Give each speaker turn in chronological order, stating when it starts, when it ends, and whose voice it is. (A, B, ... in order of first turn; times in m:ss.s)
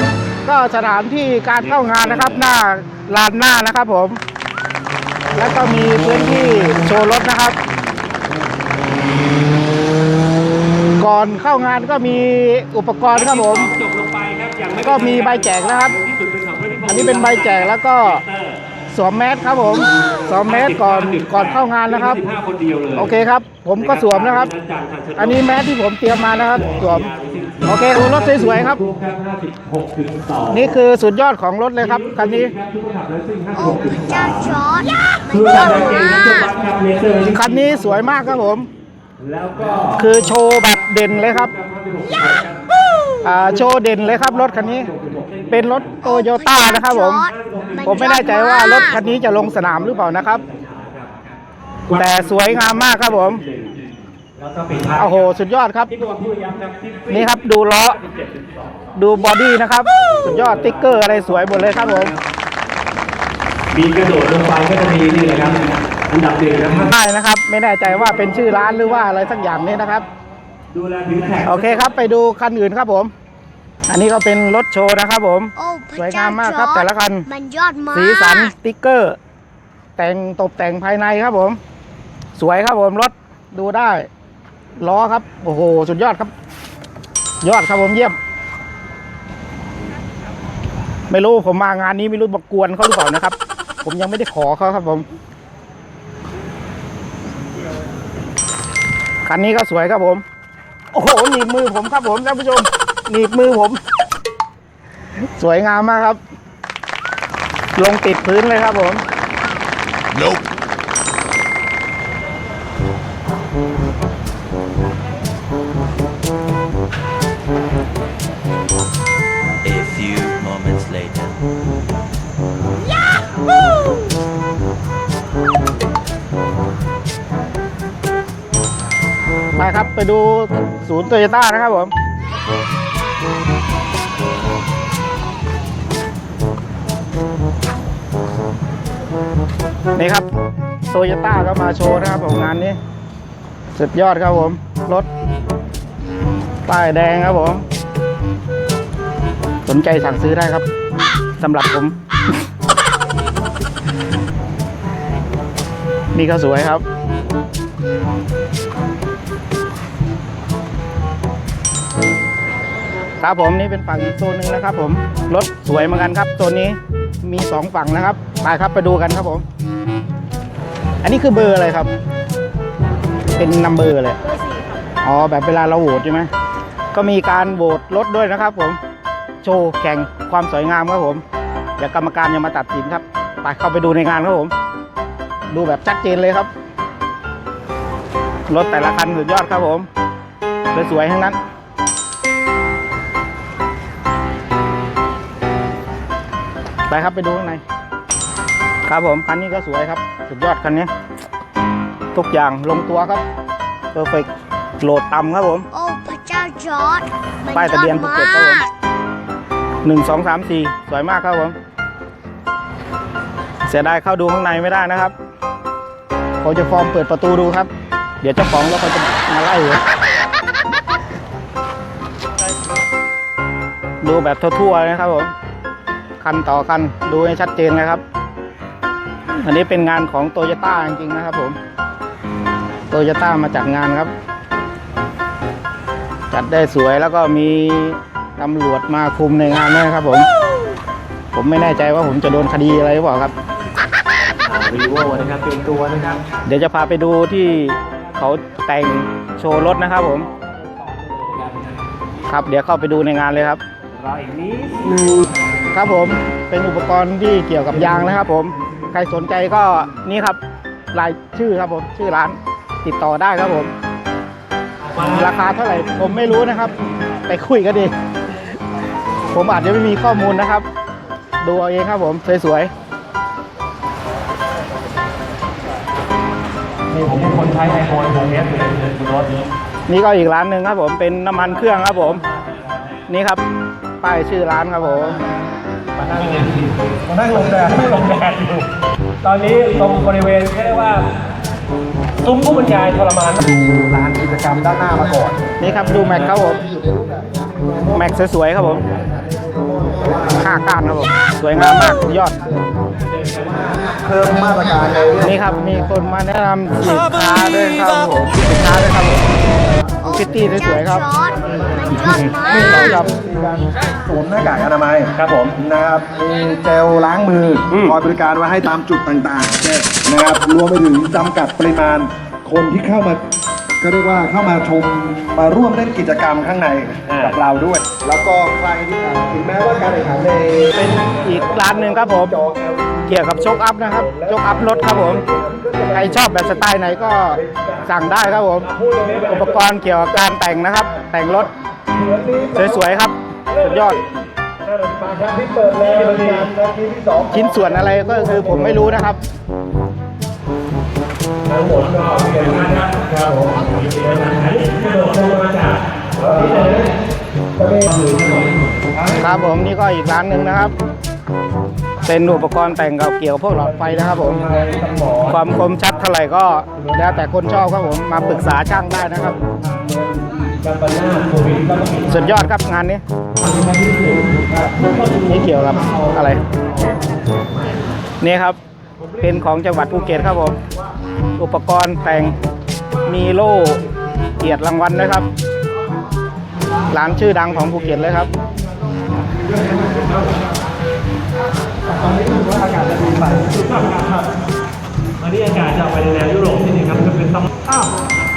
0:00.4-0:04.2 A
0:01.8-0:02.4 B
0:05.4-0:07.6 A
0:11.0-0:13.7 A
0:13.1-0:18.6 B
0:14.8-0:16.0 A
0:16.8-0:18.2 A
0:18.9-0:22.2 A
0:20.3-0:23.2 B
0:23.0-0:24.5 A
0:23.8-0:25.7 B
0:25.2-0:27.1 A
0:26.3-0:30.8 B
0:27.7-0:28.8 A
0:30.5-0:32.5 A
0:31.8-0:34.6 B
0:33.5-0:36.6 C
0:35.3-0:38.1 B
0:37.3-0:38.7 A
0:39.2-0:40.3 B
0:40.0-0:41.5 A
0:41.1-0:42.6 B
0:43.2-0:44.9 A
0:43.4-0:46.0 B
0:45.5-0:47.2 A
0:46.0-0:49.0 C
0:47.3-0:51.1 B
0:47.8-0:50.4 A
0:51.9-0:53.8 B
0:52.0-0:53.4 A
0:54.4-0:55.2 B
0:55.0-0:55.9 A
0:55.9-0:58.9 B
0:57.1-0:58.0 A
0:58.9-1:02.1 A
1:00.0-1:02.2 B
1:03.7-1:06.9 B
1:06.8-1:10.1 A
1:07.9-1:09.4 B
1:10.7-1:11.9 B
1:11.4-1:13.1 A
1:13.9-1:17.3 A
1:15.6-1:18.5 C
1:17.9-1:19.2 A
1:20.0-1:21.6 A
1:22.4-1:24.1 A
1:24.8-1:26.3 A
1:27.4-1:28.2 A
1:31.1-1:35.1 A
1:39.2-1:40.2 A
1:40.9-1:43.8 A
1:45.4-1:46.2 A
1:47.8-1:49.0 A
1:50.1-1:50.5 D
1:59.6-2:01.4 D
2:09.6-2:11.9 A
2:20.0-2:20.3 A
2:20.9-2:22.8 A
2:23.8-2:25.1 A
2:26.7-2:27.6 A
2:29.7-2:30.6 A
2:31.4-2:32.0 A
2:36.1-2:36.8 A
2:43.2-2:49.4 A
2:51.0-2:51.9 A
2:53.4-2:54.2 A
2:55.0-2:56.3 A
2:56.9-2:58.8 A
2:59.4-3:01.2 A
3:01.8-3:04.5 A
3:05.5-3:06.5 A
3:08.5-3:09.9 A
3:10.7-3:11.4 A
3:16.9-3:17.6 A
3:18.9-3:20.9 A
3:22.1-3:23.2 A
3:23.9-3:24.3 A
3:24.8-3:25.7 A
3:25.7-3:28.7 C
3:27.5-3:28.6 A
3:29.8-3:31.6 A
3:33.7-3:35.1 A
3:36.4-3:37.7 A
3:38.2-3:39.8 A
3:44.0-3:45.3 A
3:46.2-3:48.0 A
3:49.3-3:51.6 A
3:52.9-3:54.1 A
3:56.3-4:00.3 A
4:01.3-4:03.3 A
4:04.4-4:06.2 B
4:06.5-4:10.3 A
4:10.4-4:11.7 B
4:12.3-4:13.6 A
4:14.0-4:15.3 B
4:15.7-4:20.4 A
4:20.9-4:23.7 A
4:24.8-4:25.3 B
4:25.0-4:26.7 A
4:27.3-4:27.9 A
4:29.3-4:30.6 A
4:31.4-4:32.7 A
4:36.9-4:39.5 B
4:39.9-4:42.2 A
4:43.1-4:43.4 A
4:44.0-4:45.2 A
4:46.0-4:48.7 B
4:47.3-4:47.7 E
4:49.2-4:51.1 B
4:52.2-4:53.4 B
4:53.4-4:58.1 E
4:55.6-4:56.6 A
4:57.9-4:58.8 A
4:59.2-5:00.5 E
5:00.4-5:02.4 A
5:01.9-5:02.7 E
5:03.1-5:03.8 B
5:03.6-5:05.4 E
5:05.2-5:09.3 A
5:10.0-5:13.1 C
5:10.1-5:11.0 A
5:11.5-5:23.2 E
5:11.8-5:12.3 B
5:12.5-5:13.1 A
5:15.2-5:15.6 B
5:17.7-5:18.0 B
5:23.8-5:36.7 E
5:27.1-5:27.4 B
5:30.7-5:32.4 A
5:33.1-5:35.2 A
5:35.9-5:41.5 A
5:37.3-5:37.8 E
5:38.7-5:39.9 E
5:38.9-5:39.1 B
5:42.0-5:42.8 E
5:42.5-5:44.0 A
5:43.5-5:44.1 B
5:44.6-5:46.5 B
5:45.1-5:49.0 E
5:47.3-5:49.2 A
5:51.5-5:56.9 B
5:56.4-5:56.8 E
5:57.6-5:57.9 E
5:57.9-5:58.8 B
5:59.2-6:00.8 A
6:02.0-6:04.4 A
6:03.8-6:05.4 B
6:05.2-6:09.4 A
6:09.3-6:12.3 B
6:12.1-6:13.0 A
6:13.4-6:16.1 B
6:15.2-6:16.4 A
6:16.8-6:17.5 B
6:18.2-6:18.6 A
6:19.2-6:20.6 A
6:21.4-6:22.4 A
6:23.0-6:23.8 A
6:24.4-6:25.3 A
6:26.9-6:28.3 A
6:29.4-6:30.2 E
6:31.9-6:34.0 E
6:33.8-6:34.0 B
6:35.2-6:37.5 B